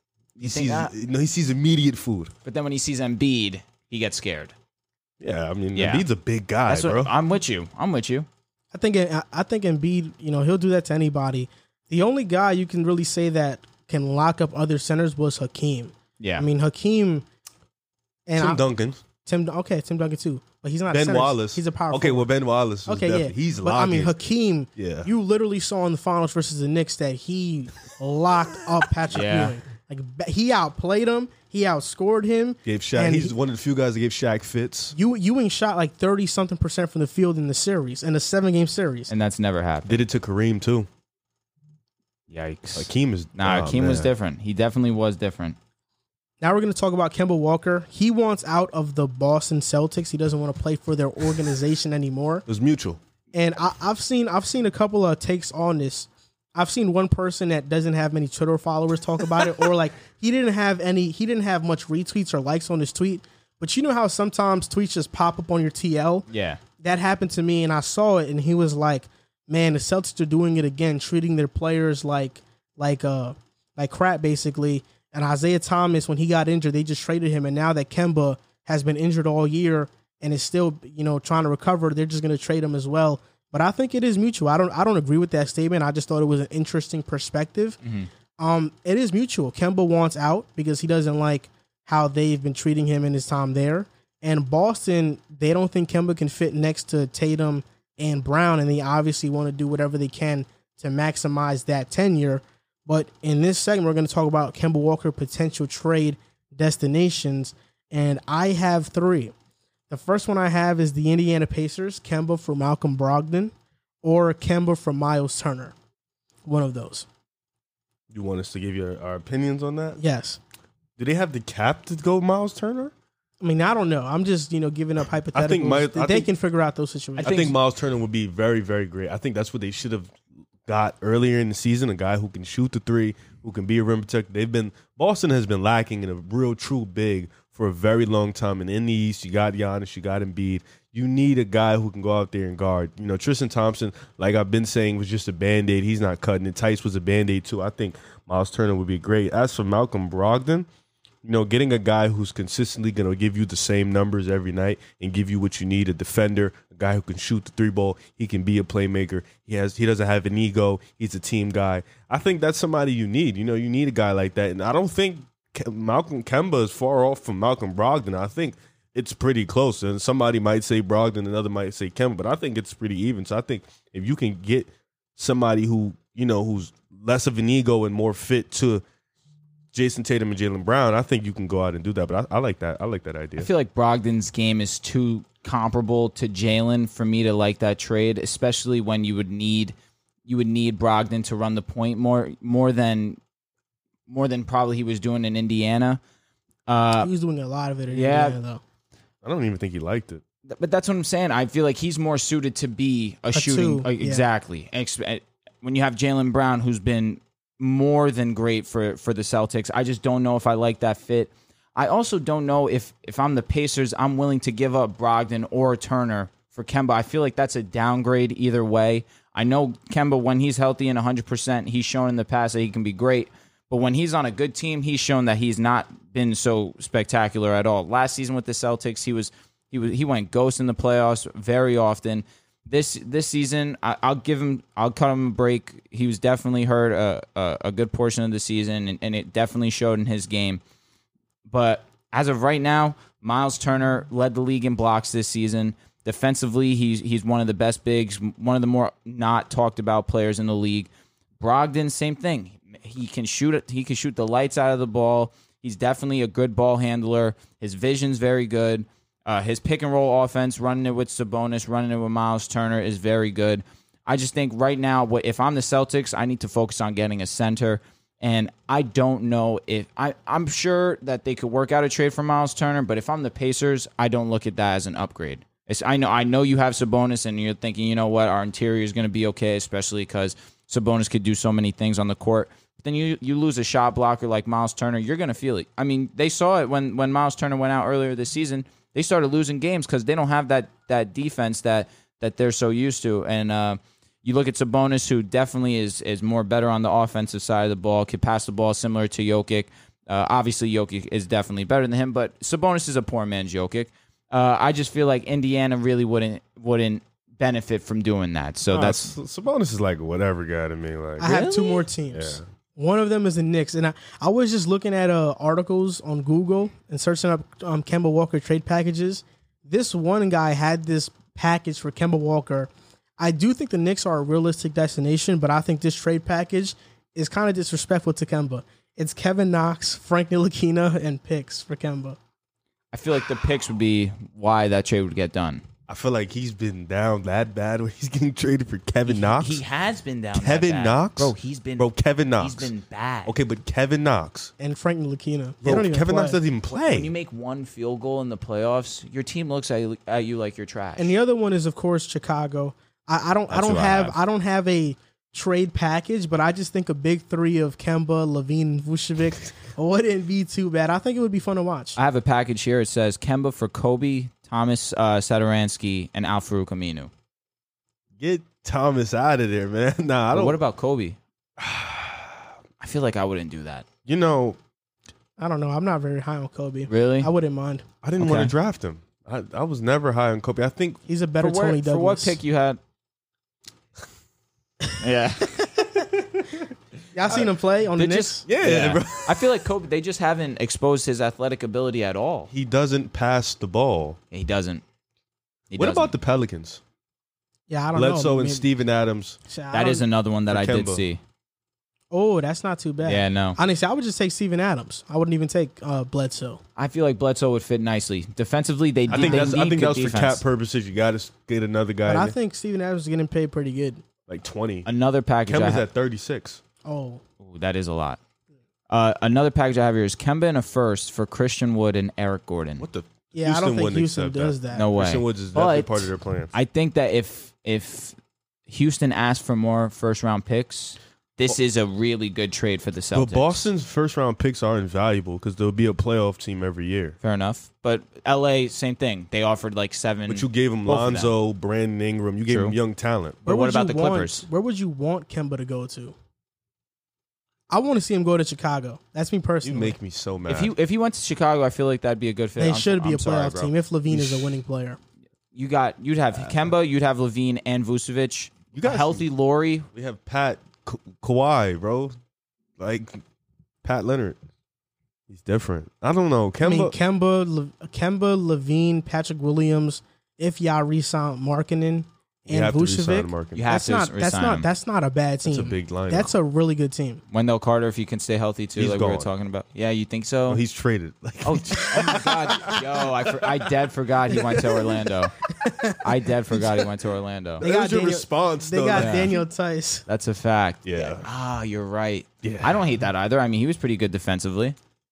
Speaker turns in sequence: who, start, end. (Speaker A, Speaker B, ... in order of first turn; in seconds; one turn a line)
Speaker A: 0.4-0.9
Speaker B: 0.4-2.3
Speaker A: 2.4-4.5
Speaker B: 5.2-7.1
Speaker A: 5.7-6.0
Speaker A: 6.7-8.3
Speaker C: 8.7-17.2
Speaker A: 16.2-16.5
Speaker C: 18.2-18.6
Speaker B: 18.4-19.0
Speaker C: 19.2-22.3
Speaker B: 20.9-24.2
Speaker C: 22.9-33.3
Speaker B: 24.8-25.1
Speaker A: 29.1-29.6
Speaker B: 32.6-35.0
Speaker C: 34.9-39.1
Speaker A: 39.1-40.0
Speaker B: 39.8-40.9
Speaker A: 42.3-45.6
Speaker B: 42.7-44.1
Speaker C: 46.4-52.4
Speaker B: 52.5-53.0
Speaker C: 53.3-66.3
Speaker A: 66.3-66.6
Speaker C: 66.8-87.8
Speaker A: 87.8-88.1
Speaker C: 88.4-109.3
Speaker C: 109.9-115.7
Speaker C: 116.5-117.0
Speaker B: 118.1-120.0
Speaker C: 120.0-120.4
Speaker B: 121.0-122.9
Speaker C: 123.4-127.4
Speaker B: 125.3-126.3
Speaker A: 127.2-127.5
Speaker B: 127.2-130.1
Speaker B: 130.7-150.7
Speaker B: 151.2-178.8
Speaker B: 179.7-183.5
Speaker A: 183.4-189.7
Speaker A: 190.2-193.2
Speaker A: 194.1-196.0
Speaker A: 196.7-197.1
Speaker C: 197.0-198.6
Speaker A: 197.9-198.4
Speaker B: 199.2-200.2
Speaker A: 200.5-240.6
Speaker C: 203.3-204.2
Speaker A: 241.5-250.9
Speaker A: 251.4-309.1
Speaker B: 308.7-311.4
Speaker C: 311.2-332.2
Speaker A: 311.2-311.9
Speaker B: 312.1-312.4
Speaker A: 332.9-335.6
Speaker B: 335.9-339.6
Speaker A: 339.1-343.3
Speaker B: 340.3-342.7
Speaker B: 343.2-344.5
Speaker C: 344.6-346.4
Speaker B: 345.6-347.1
Speaker A: 346.7-351.1
Speaker C: 351.0-362.0
Speaker A: 353.5-354.2
Speaker A: 361.9-367.1
Speaker B: 368.2-370.6
Speaker A: 370.3-371.2
Speaker B: 371.6-372.4
Speaker A: 372.8-373.8
Speaker B: 374.1-374.6
Speaker C: 375.4-377.8
Speaker A: 376.9-377.3
Speaker B: 378.0-381.0
Speaker A: 378.2-378.5
Speaker C: 381.1-382.4
Speaker A: 381.4-382.8
Speaker A: 385.0-385.6
Speaker C: 387.1-388.4
Speaker A: 387.9-392.5
Speaker B: 388.4-389.4
Speaker B: 392.5-394.2
Speaker A: 394.3-394.8
Speaker A: 395.7-396.1
Speaker B: 395.8-396.8
Speaker C: 397.7-398.6
Speaker B: 397.9-399.4
Speaker C: 399.5-400.1
Speaker A: 399.7-401.2
Speaker B: 400.5-401.0
Speaker C: 402.1-406.6
Speaker A: 403.0-403.6
Speaker A: 406.8-410.4
Speaker B: 409.1-412.4
Speaker C: 409.1-409.5
Speaker C: 412.1-414.0
Speaker B: 414.3-414.9
Speaker A: 414.8-415.9
Speaker B: 415.5-416.6
Speaker C: 416.8-417.2
Speaker A: 417.4-418.2
Speaker A: 418.9-422.9
Speaker B: 422.8-426.5
Speaker C: 423.3-424.9
Speaker A: 424.7-428.1
Speaker A: 428.7-433.6
Speaker B: 433.1-437.1
Speaker A: 437.2-441.3
Speaker B: 440.3-443.4
Speaker A: 442.5-442.8
Speaker A: 443.4-444.4
Speaker C: 443.4-446.1
Speaker C: 447.7-449.9
Speaker B: 449.6-450.7
Speaker A: 450.5-453.7
Speaker C: 452.6-455.0
Speaker B: 454.1-454.6
Speaker A: 455.5-459.9
Speaker B: 458.7-459.2
Speaker B: 459.9-462.1
Speaker B: 462.8-463.2
Speaker B: 463.8-464.4
Speaker B: 465.3-467.0
Speaker C: 466.6-477.2
Speaker B: 472.5-473.6
Speaker A: 473.5-474.7
Speaker B: 475.4-476.3
Speaker A: 477.3-480.6
Speaker B: 478.8-479.3
Speaker B: 480.5-483.1
Speaker A: 481.4-485.3
Speaker C: 484.4-484.9
Speaker C: 485.6-485.9
Speaker A: 486.0-487.6
Speaker B: 487.6-489.4
Speaker C: 487.6-490.0
Speaker A: 488.9-489.4
Speaker A: 490.1-494.8
Speaker B: 490.8-491.3
Speaker B: 492.4-492.9